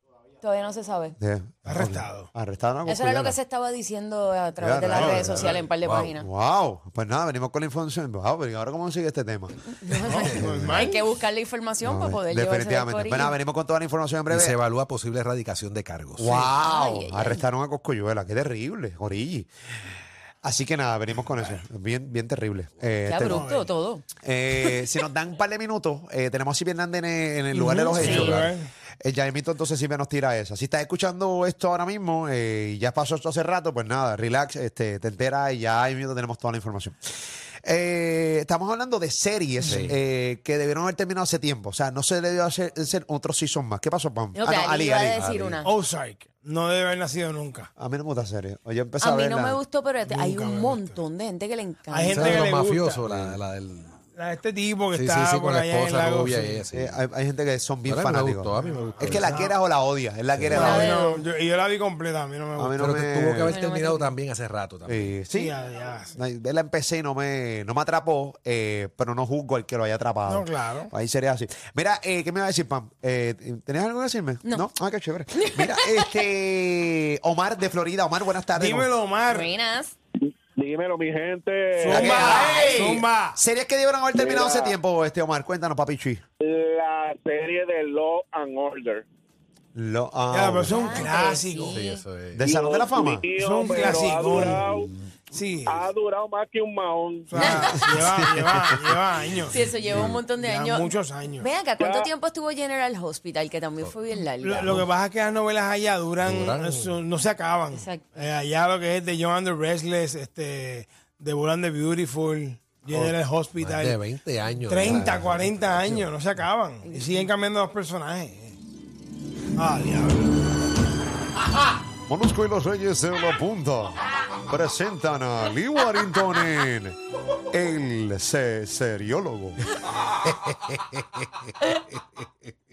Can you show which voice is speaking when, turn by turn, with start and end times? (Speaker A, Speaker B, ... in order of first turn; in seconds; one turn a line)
Speaker A: 0.4-1.2
Speaker B: 1.2-3.4
Speaker C: 1.6-2.3
Speaker A: 2.9-6.3
Speaker B: 4.6-9.6
Speaker C: 4.9-5.4
Speaker D: 5.4-6.1
Speaker A: 9.7-13.3
Speaker C: 9.9-10.9
Speaker B: 10.1-10.8
Speaker B: 11.8-14.6
Speaker D: 14.3-16.4
Speaker B: 16.2-19.5
Speaker A: 16.2-17.4
Speaker B: 20.4-23.4
Speaker A: 23.1-24.0
Speaker C: 23.2-23.7
Speaker B: 24.2-28.5
Speaker C: 27.5-28.7
Speaker A: 27.9-28.4
Speaker D: 28.2-28.5
Speaker B: 29.0-37.0
Speaker B: 37.6-45.2
Speaker D: 39.6-40.0
Speaker A: 44.3-45.7
Speaker D: 45.2-45.6
Speaker C: 45.6-47.7
Speaker B: 47.8-49.6
Speaker A: 49.0-52.5
Speaker C: 50.0-51.0
Speaker C: 51.9-53.0
Speaker D: 52.1-54.0
Speaker B: 53.1-53.4
Speaker C: 54.0-56.6
Speaker D: 54.9-57.0
Speaker B: 56.7-60.9
Speaker D: 57.9-59.4
Speaker C: 58.5-59.5
Speaker D: 60.3-60.7
Speaker C: 60.5-63.0
Speaker A: 60.5-61.2
Speaker B: 62.5-63.5
Speaker D: 62.8-65.2
Speaker A: 63.5-64.1
Speaker B: 64.8-65.5
Speaker C: 65.3-66.2
Speaker B: 66.1-78.9
Speaker C: 70.2-70.9
Speaker A: 75.3-76.2
Speaker C: 78.5-79.5
Speaker A: 79.3-80.0
Speaker E: 80.5-82.6
Speaker C: 81.8-83.4
Speaker B: 81.9-86.2
Speaker E: 84.1-84.8
Speaker E: 86.4-89.0
Speaker B: 89.7-91.0
Speaker C: 90.3-91.8
Speaker A: 90.7-92.0
Speaker D: 91.7-92.5
Speaker B: 92.3-93.3
Speaker E: 92.4-94.9
Speaker C: 93.4-94.7
Speaker D: 94.6-95.1
Speaker C: 95.3-95.8
Speaker E: 95.6-97.5
Speaker C: 97.3-101.5
Speaker A: 97.4-98.0
Speaker B: 97.7-99.0
Speaker A: 99.4-104.8
Speaker D: 99.9-100.2
Speaker E: 101.8-102.1
Speaker C: 104.1-114.0
Speaker D: 106.2-107.0
Speaker A: 107.7-108.1
Speaker D: 113.6-116.1
Speaker C: 114.7-118.6
Speaker B: 114.8-115.2
Speaker A: 116.8-117.3
Speaker C: 119.5-120.3
Speaker B: 122.1-127.0
Speaker B: 127.5-129.6
Speaker D: 130.3-131.2